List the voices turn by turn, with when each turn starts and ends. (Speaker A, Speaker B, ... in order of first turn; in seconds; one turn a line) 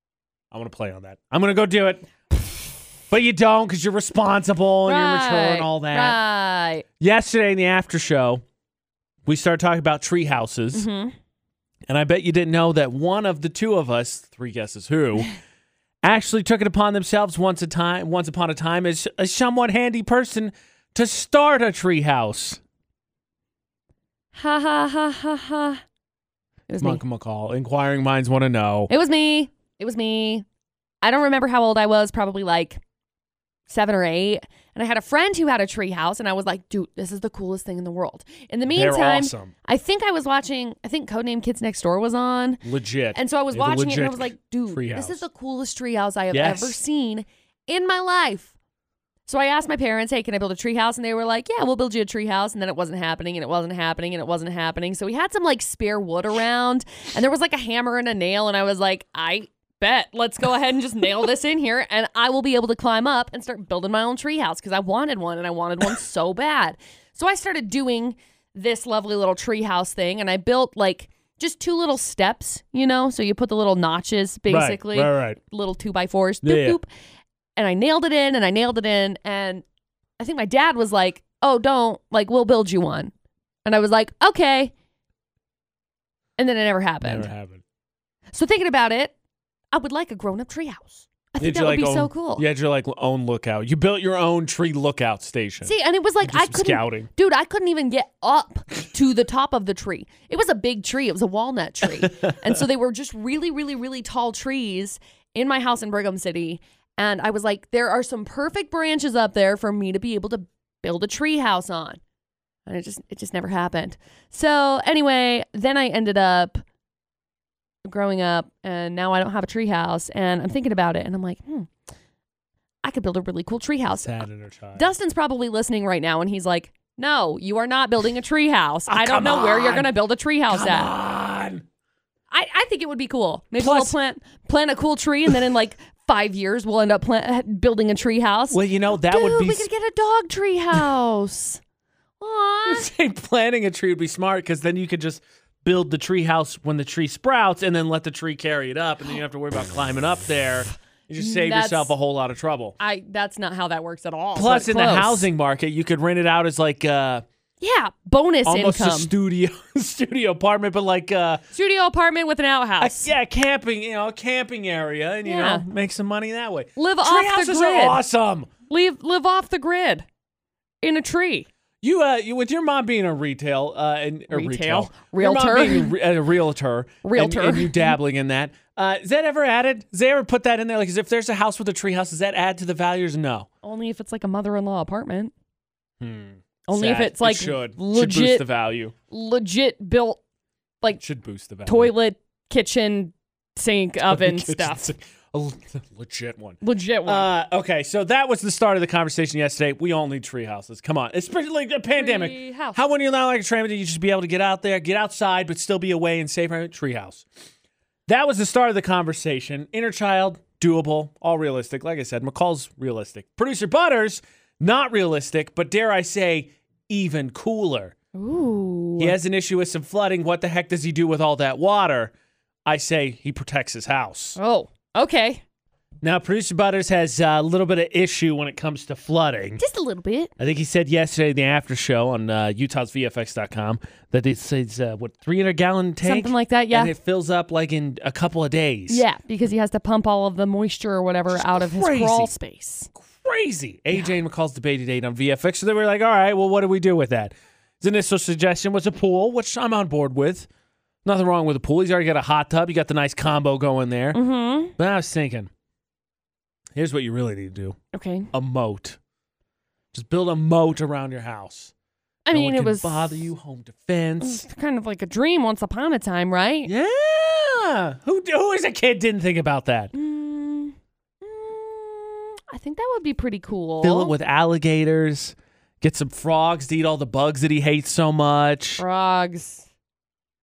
Speaker A: 0.5-2.1
Speaker A: 3.1-6.2
Speaker B: 4.8-6.8
Speaker A: 7.0-8.4
Speaker A: 9.3-10.9
Speaker B: 10.7-11.1
Speaker A: 11.9-15.3
Speaker A: 16.0-22.6
Speaker B: 24.3-25.8
Speaker B: 26.7-27.0
Speaker A: 26.8-28.9
Speaker B: 28.9-30.4
Speaker B: 31.0-32.8
Speaker B: 33.7-48.5
Speaker A: 38.7-39.5
Speaker A: 42.6-45.2
Speaker A: 46.3-46.8
Speaker B: 49.3-76.9
Speaker A: 74.5-75.4
Speaker A: 76.4-76.8
Speaker B: 77.6-79.7
Speaker B: 80.2-83.1
Speaker B: 83.7-84.7
Speaker B: 86.4-87.3
Speaker A: 87.0-87.6
Speaker B: 88.3-89.2
Speaker B: 89.7-92.4
Speaker A: 91.4-97.1
Speaker B: 95.6-112.0
Speaker A: 102.0-102.4
Speaker B: 112.7-116.6
Speaker B: 117.9-121.7
Speaker B: 122.8-130.9
Speaker A: 123.9-124.9
Speaker A: 128.9-129.9
Speaker A: 130.5-131.6
Speaker B: 132.3-141.6
Speaker A: 133.6-134.0
Speaker A: 138.5-139.7
Speaker B: 142.2-142.9
Speaker A: 142.7-152.8
Speaker B: 151.2-151.9
Speaker B: 152.8-155.3
Speaker A: 154.4-157.2
Speaker B: 157.6-159.1
Speaker A: 158.4-161.4
Speaker B: 161.5-163.1
Speaker A: 162.8-168.5
Speaker B: 165.2-165.7
Speaker B: 166.8-168.0
Speaker B: 168.7-170.1
Speaker B: 170.8-171.5
Speaker A: 171.8-183.5
Speaker B: 174.3-176.0
Speaker B: 177.0-178.0
Speaker B: 183.6-185.3
Speaker A: 186.0-188.9
Speaker B: 186.7-188.5
Speaker B: 189.1-190.2
Speaker A: 191.0-191.9
Speaker B: 191.7-194.9
Speaker A: 194.0-207.2
Speaker B: 196.6-197.3
Speaker B: 201.9-202.8
Speaker A: 208.1-217.9
Speaker B: 218.1-219.2
Speaker A: 219.0-222.1
Speaker A: 222.7-224.4
Speaker B: 224.4-225.4
Speaker A: 226.0-229.6
Speaker B: 229.6-230.3
Speaker A: 230.4-239.1
Speaker B: 236.0-236.9
Speaker B: 238.9-242.9
Speaker A: 241.3-242.3
Speaker A: 243.1-250.5
Speaker A: 251.1-254.2
Speaker B: 254.1-254.8
Speaker A: 254.8-255.5
Speaker A: 256.8-257.8
Speaker B: 257.9-258.3
Speaker A: 258.3-259.0
Speaker A: 259.9-261.7
Speaker B: 262.2-263.3
Speaker A: 262.3-264.4
Speaker B: 264.2-266.7
Speaker A: 266.6-269.9
Speaker B: 269.9-274.2
Speaker A: 273.8-278.8
Speaker B: 278.8-279.7